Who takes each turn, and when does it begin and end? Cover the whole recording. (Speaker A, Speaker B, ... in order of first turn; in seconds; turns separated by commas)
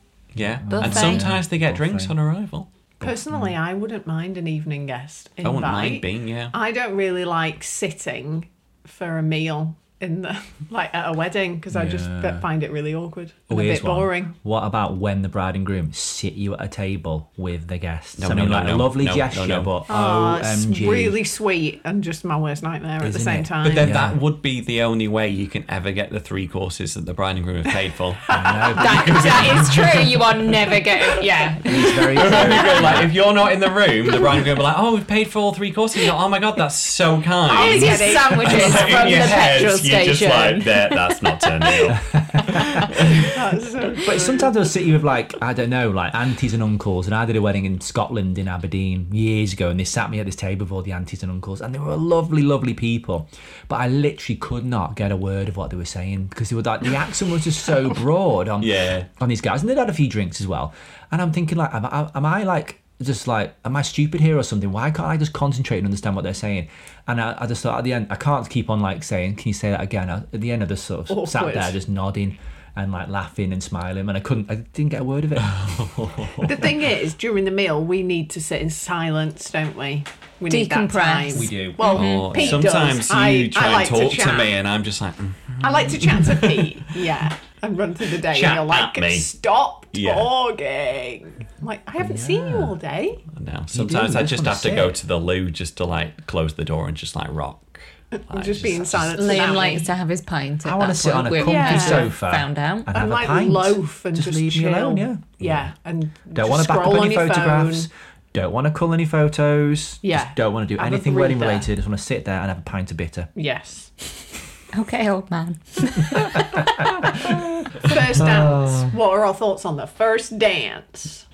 Speaker A: 0.3-2.7, Speaker B: 0.4-2.1, Speaker C: 0.7-1.2, Speaker B: 3.0-3.6, Speaker D: 3.0-14.3, Speaker A: 5.4-6.5, Speaker B: 11.7-12.5, Speaker B: 13.5-21.2, Speaker A: 18.2-19.7, Speaker D: 19.9-23.9, Speaker B: 23.0-24.2, Speaker A: 23.6-30.4, Speaker D: 28.3-29.5, Speaker B: 28.3-29.4, Speaker C: 28.8-33.0, Speaker B: 31.6-33.1, Speaker A: 32.1-42.0, Speaker D: 34.2-34.4, Speaker D: 37.5-39.6, Speaker C: 37.5-41.9, Speaker B: 41.9-43.3, Speaker C: 42.5-42.9, Speaker D: 43.0-44.5, Speaker B: 44.0-76.7, Speaker A: 58.6-59.1, Speaker D: 71.1-71.8, Speaker A: 75.4-76.5, Speaker D: 76.4-84.5, Speaker C: 80.5-82.4, Speaker B: 81.3-82.6, Speaker A: 81.9-86.9, Speaker D: 85.6-93.2, Speaker A: 88.2-89.3, Speaker A: 89.9-90.3, Speaker B: 92.0-92.8, Speaker A: 93.3-99.2, Speaker B: 93.7-95.0, Speaker D: 98.2-99.9, Speaker C: 99.1-102.9, Speaker B: 100.6-105.7, Speaker D: 101.4-102.1, Speaker D: 102.9-107.9, Speaker B: 106.3-113.3, Speaker D: 110.0-111.7, Speaker D: 113.4-114.1, Speaker C: 114.7-117.4, Speaker B: 116.1-118.9, Speaker D: 117.8-121.2